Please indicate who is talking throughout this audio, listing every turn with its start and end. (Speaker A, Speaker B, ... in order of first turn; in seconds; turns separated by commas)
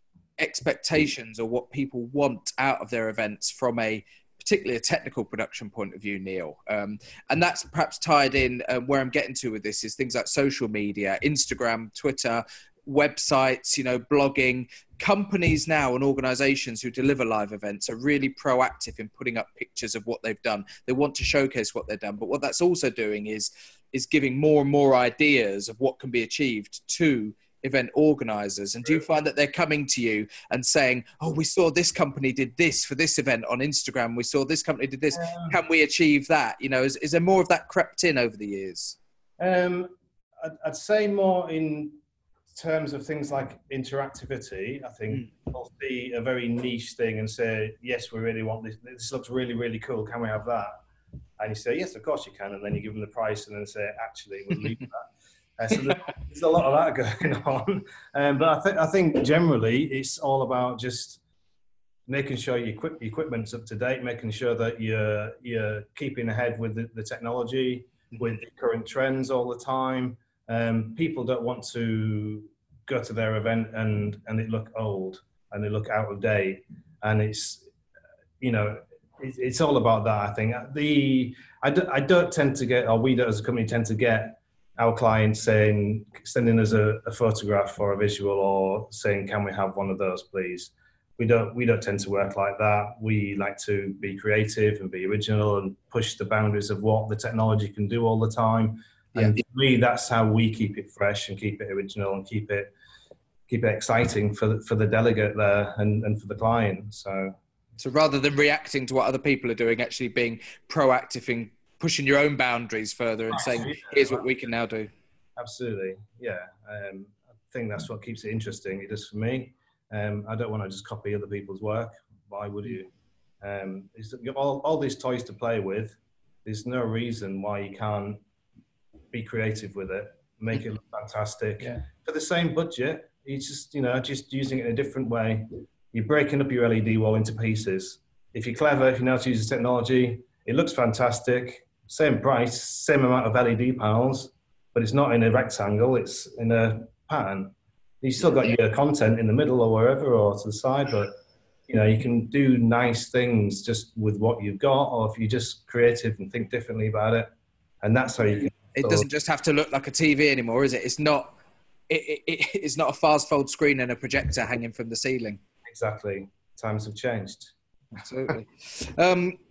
Speaker A: 0.4-39.0, Speaker B: 35.1-35.6, Speaker B: 39.4-42.0, Speaker B: 42.5-50.7, Speaker B: 51.4-61.2, Speaker B: 62.1-77.7, Speaker B: 78.4-102.7, Speaker B: 103.5-107.3, Speaker A: 107.8-114.9, Speaker B: 113.3-114.3, Speaker B: 115.4-122.9, Speaker B: 123.4-128.2, Speaker B: 129.1-151.2, Speaker B: 151.7-157.3, Speaker B: 157.8-159.1, Speaker A: 158.8-161.4, Speaker A: 161.9-165.4, Speaker B: 165.7-167.5, Speaker A: 167.9-169.4